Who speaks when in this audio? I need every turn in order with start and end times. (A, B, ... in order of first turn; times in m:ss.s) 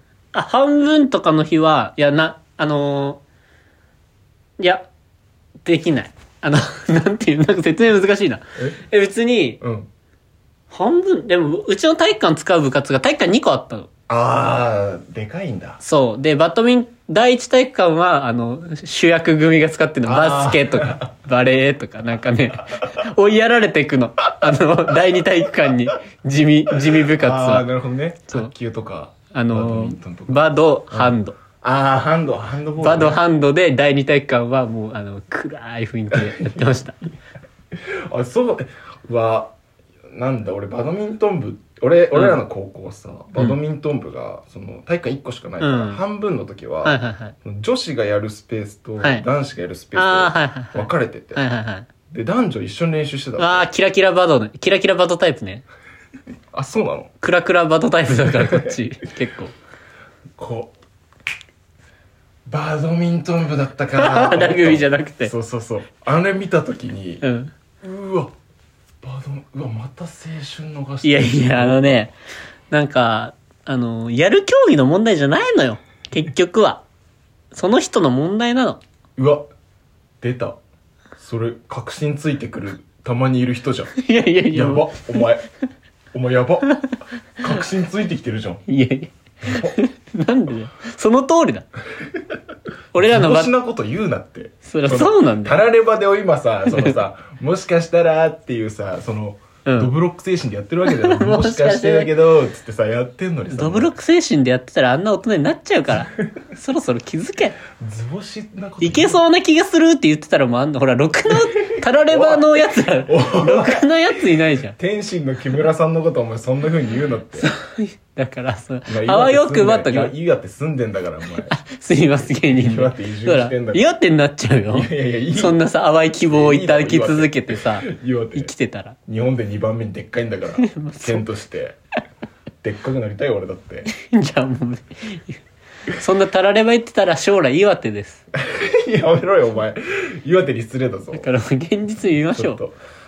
0:00.3-0:03.2 A
0:04.6-0:04.9 A
0:05.6-0:09.6 A
0:09.6-0:09.9 B
0:10.7-0:13.9 A
0:14.1-0:15.8 B
0:15.8-0:27.7 A
0:20.0-0:21.1 B
0:22.7-0:23.0 B
0:27.1-0:33.2 B
0:29.3-0:31.4 A
0:32.8-0:37.0 A
0:36.1-0:36.7 B
0:38.1-0:39.5 B
0:40.1-0:51.4 B
0:42.1-0:42.4 A
0:45.6-0:46.0 A
0:46.8-0:47.3 A
0:49.0-0:49.2 A
0:49.9-0:51.9 A
0:52.1-0:53.7 B
0:53.4-0:55.6 A
0:56.5-0:57.1 B
0:57.2-0:59.5 A
0:58.3-0:58.7 B
1:00.4-1:00.7 B
1:02.4-1:07.2 B
1:04.0-1:05.3 A
1:07.2-1:07.5 A
1:07.8-1:08.3 B
1:09.0-1:12.1 B
1:11.0-1:12.1 A
1:12.7-1:16.8 A
1:17.5-1:18.8 A
1:19.2-1:19.4 B
1:20.2-1:20.6 B
1:21.2-1:24.0 B
1:24.0-1:25.3 A
1:24.5-1:25.4 B
1:26.1-1:26.8 B
1:27.4-1:28.6 B
1:28.7-1:31.6 A
1:29.5-1:29.8 B
1:32.9-1:33.5 A
1:33.0-1:43.9 B
1:34.6-1:35.6 A
1:36.6-1:37.0 A
1:39.6-1:39.9 A
1:40.8-1:42.2 A
1:43.5-1:47.6 A
1:46.1-1:46.4 B
1:47.7-1:49.2 B
1:48.8-1:54.7 A
1:51.4-1:53.9 B
1:54.6-1:57.5 B
1:57.4-2:00.1 A
1:58.9-2:01.6 B
2:01.4-2:09.0 A
2:02.2-2:03.9 B
2:04.7-2:05.6 B
2:06.2-2:08.5 B
2:09.1-2:11.8 B
2:10.6-2:11.3 A
2:12.6-2:13.9 B
2:13.9-2:15.4 A
2:15.9-2:18.2 A
2:18.4-2:21.3 B
2:21.1-2:22.6 A
2:22.3-2:22.8 B